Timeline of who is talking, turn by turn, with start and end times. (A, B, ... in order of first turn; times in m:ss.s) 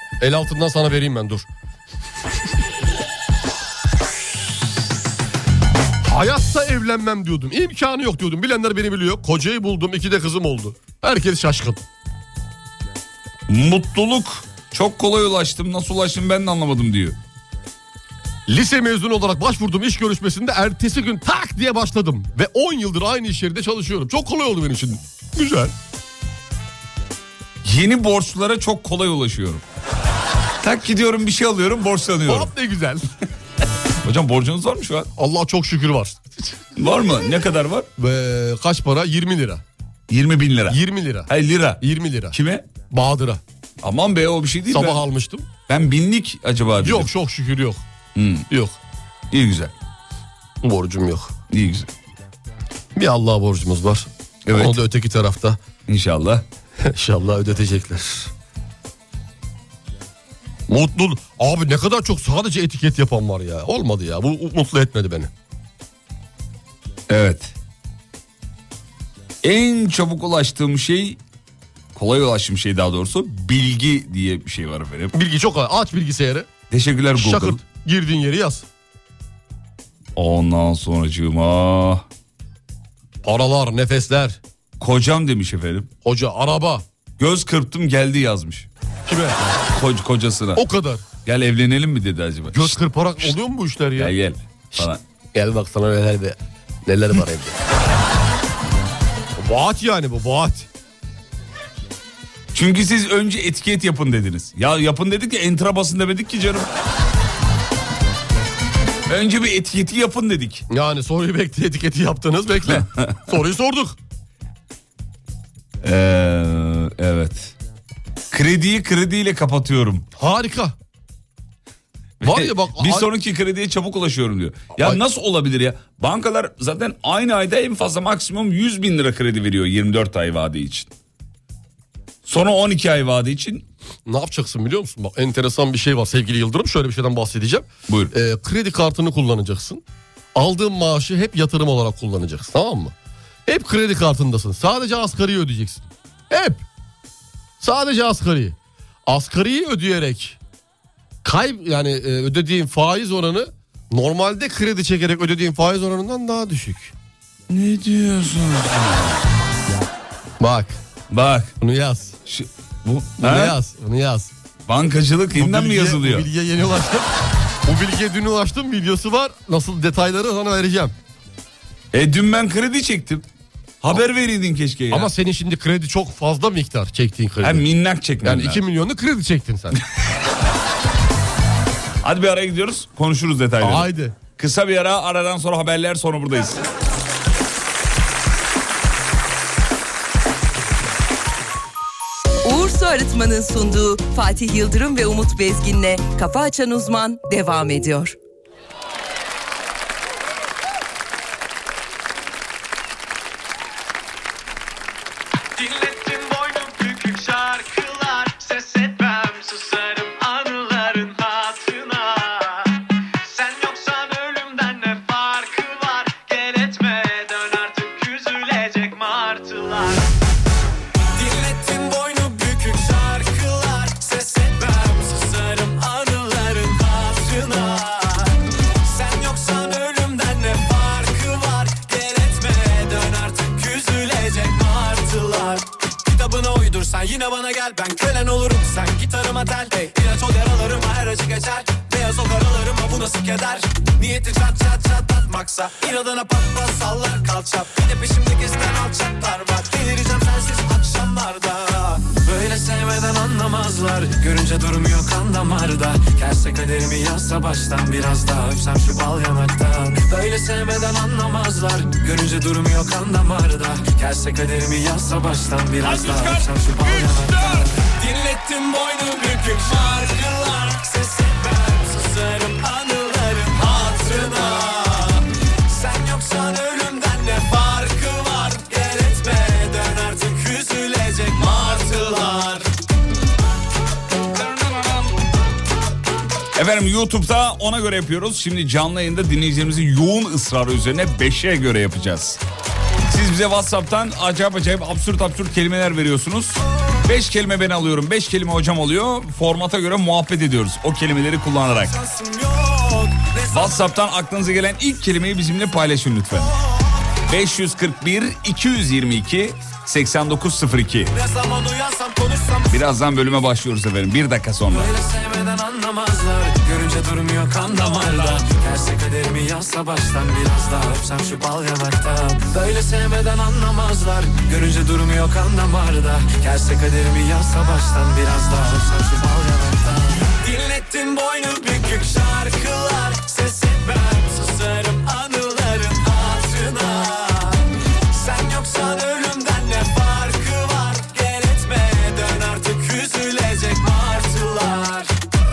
0:00.2-0:01.5 A
0:06.0-0:11.8 A
0:13.5-0:17.2 B
0:18.5-0:25.7 A
0:27.6-0:29.6 B
0:30.6-0:32.5 B
0:32.3-0:33.0 A
0:34.0-0:35.1 B
0:35.2-0:36.5 A
0:36.8-0:37.9 B
0:38.0-0:39.6 A
0:40.1-0:41.8 B
0:40.7-0:41.3 A
0:41.8-0:42.4 A
0:42.3-0:42.6 B
0:42.9-0:43.4 A
0:43.8-0:45.0 B
0:44.7-0:45.5 A
0:45.7-0:47.1 B
0:46.8-0:47.8 A
0:48.2-0:48.5 B
0:48.5-0:48.8 A
0:49.3-0:49.7 B
0:50.6-0:51.3 A
0:51.5-0:51.9 B
0:53.0-0:55.6 A
0:54.5-0:54.8 B
0:55.9-0:56.4 B
0:56.8-0:58.3 A
1:00.7-1:05.3 A
1:07.1-1:07.5 A
1:09.4-1:11.2 B
1:12.0-1:15.1 B
1:15.1-1:16.5 A
1:16.7-1:17.6 B
1:17.2-1:18.6 A
1:20.2-1:22.0 B
1:23.2-1:24.4 A
1:24.8-1:25.9 B
1:26.0-1:26.8 A
1:27.2-1:28.7 B
1:29.1-1:29.4 A
1:29.8-1:30.6 B
1:30.6-1:31.0 A
1:31.2-1:33.4 B
1:32.5-1:34.1 A
1:34.0-1:35.0 B
1:34.8-1:37.6 A
1:39.4-1:40.7 A
1:42.5-1:46.7 B
1:49.1-1:50.6 B
1:50.7-1:54.0 A
1:55.8-1:57.5 B
1:58.3-2:00.1 B
2:00.2-2:00.8 A
2:02.2-2:10.9 B
2:02.2-2:03.1 A
2:12.3-2:13.7 B
2:14.1-2:19.8 A
2:20.4-2:22.9 A
2:23.5-2:26.6 A
2:27.6-2:30.4 A
2:31.2-2:36.9 A
2:37.5-2:39.2 B
2:40.4-2:40.8 A
2:41.1-2:41.5 B
2:41.6-2:42.2 A
2:42.3-2:43.6 B
2:43.2-2:44.3 A
2:44.7-2:46.3 B
2:45.4-2:47.1 A
2:47.6-2:50.9 A
2:51.9-2:53.3 B
2:53.8-2:55.1 B
2:54.9-2:57.6 A
2:57.4-2:58.6 B
2:58.2-2:59.8 A
3:02.0-3:06.6 B
3:03.6-3:04.2 A
3:12.4-3:18.2 C
3:25.6-3:40.1 D
3:41.2-4:42.7 D
4:25.8-4:27.6 A
4:41.6-4:42.4 B
4:44.7-4:45.0 B
4:46.6-4:52.4 B
4:53.1-5:02.0 B
5:01.9-5:03.8 D
5:03.5-5:06.5 B
5:07.3-5:11.2 B
5:11.1-5:12.8 D
5:12.7-5:15.0 B
5:14.7-5:45.1 D